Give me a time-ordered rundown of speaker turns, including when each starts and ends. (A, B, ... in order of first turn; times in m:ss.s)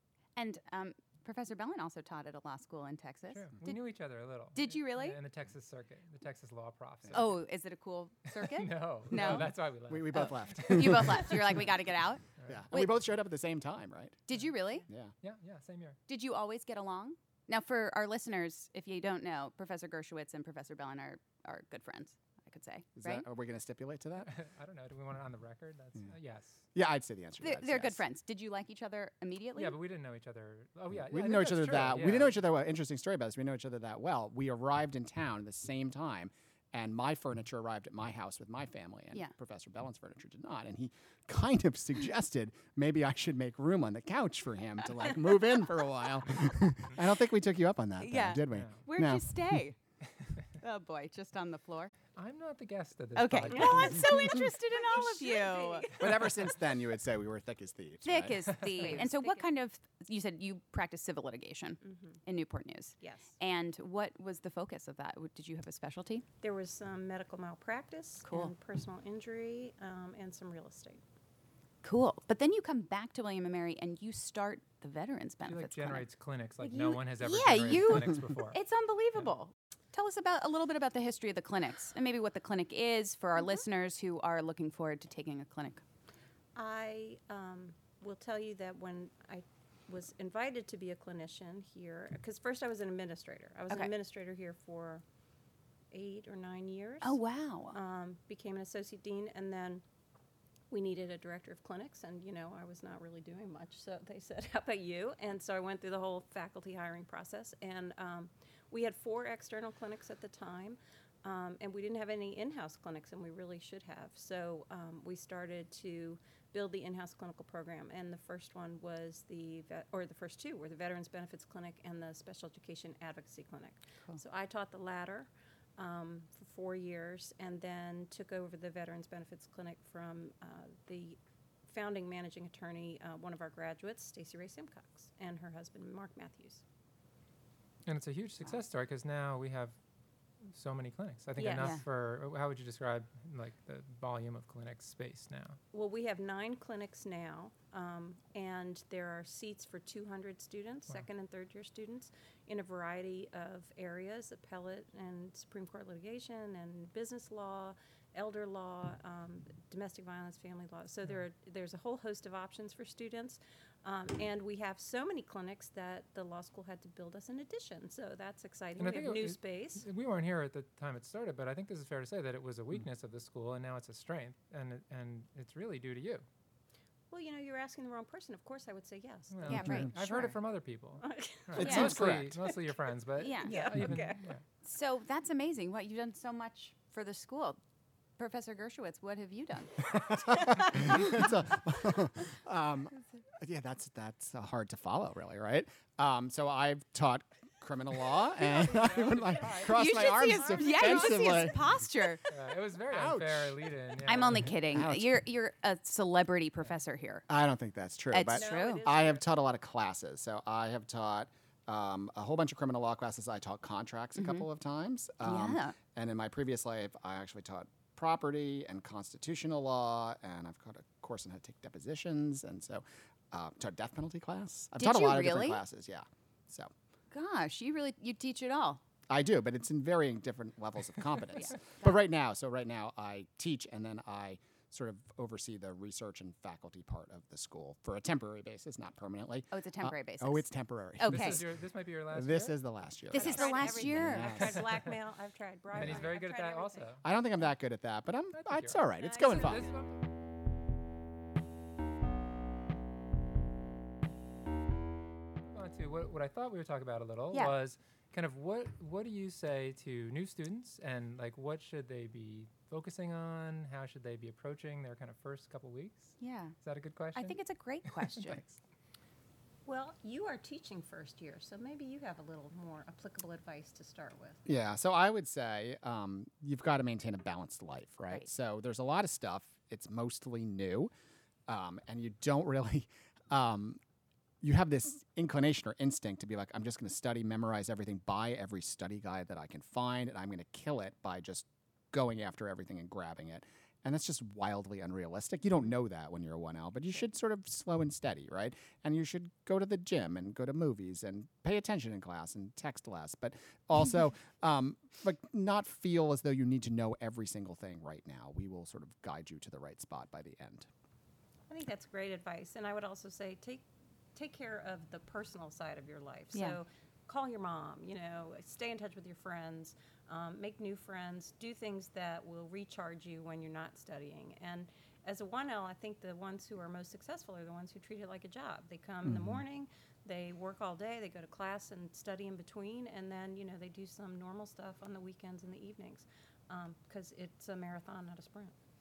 0:00.4-0:03.8 A
0:03.3-0:07.4 B
0:04.6-0:05.2 A
0:07.1-0:09.5 A
0:08.3-0:11.6 B
0:09.1-0:11.7 C
0:10.1-0:12.9 A
0:12.4-0:12.7 B
0:12.5-0:14.2 C
0:14.3-0:14.9 A
0:14.9-0:15.1 C
0:15.2-0:16.0 B
0:16.1-0:23.3 A
0:23.0-0:24.3 C
0:24.2-0:26.6 B
0:26.8-0:28.0 C
0:27.4-0:29.8 A
0:29.6-0:32.4 B
0:30.9-0:49.6 C
0:48.0-0:49.8 A
0:48.5-0:48.8 B
0:50.6-0:51.9 A
0:52.2-0:54.2 B
0:53.2-0:55.9 A
0:53.5-0:56.5 D
0:56.0-0:58.6 C
0:58.0-1:06.2 A
0:58.5-0:59.0 B
0:58.7-0:59.5 D
1:01.8-1:02.2 D
1:03.0-1:03.4 D
1:06.4-1:11.0 D
1:08.2-1:08.5 A
1:11.8-1:16.0 A
1:15.5-1:18.6 B
1:16.6-1:25.8 A
1:26.6-1:35.0 D
1:35.9-1:37.2 D
1:37.0-1:37.8 A
1:37.7-1:39.8 D
1:40.7-2:16.6 D
2:17.9-2:19.8 B
2:20.5-2:25.6 B
2:21.4-2:21.8 D
2:21.6-2:21.8 A
2:25.7-2:49.8 D
2:48.8-2:56.3 B
2:57.1-2:59.7 D
2:59.3-3:04.4 B
2:59.4-3:00.4 A
3:01.0-3:01.7 D
3:01.6-3:02.4 C
3:01.6-3:02.1 A
3:03.2-3:03.7 A
3:03.4-3:04.2 D
3:04.6-3:07.6 A
3:08.2-3:09.9 A
3:09.8-3:21.6 C
3:10.8-3:11.1 A
3:18.4-3:20.1 B
3:19.7-3:22.2 A
3:20.3-3:21.5 D
3:22.3-3:24.5 B
3:22.9-3:23.7 C
3:24.0-3:27.2 A
3:24.3-3:25.1 C
3:27.3-3:46.7 C
3:28.1-3:28.9 A
3:28.3-3:29.2 D
3:34.2-3:34.5 A
3:35.2-3:35.8 A
3:44.8-3:45.6 A
3:47.1-3:48.8 A
3:49.1-4:01.5 C
3:51.4-3:52.0 A
3:59.5-4:01.4 A
4:01.1-4:02.6 B
4:02.1-4:04.8 C
4:03.1-4:04.4 A
4:03.1-4:06.9 D
4:04.4-4:05.0 B
4:05.7-4:07.0 B
4:05.8-4:06.1 C
4:07.0-4:09.7 C
4:08.3-4:10.0 B
4:09.0-4:09.8 D
4:15.5-4:27.4 B
4:26.2-4:26.6 A
4:27.2-4:28.4 A
4:29.7-4:34.4 D
4:34.5-4:40.9 C
4:41.5-4:43.8 C
4:44.4-5:10.7 C
5:11.5-5:38.6 D
5:29.1-5:29.4 C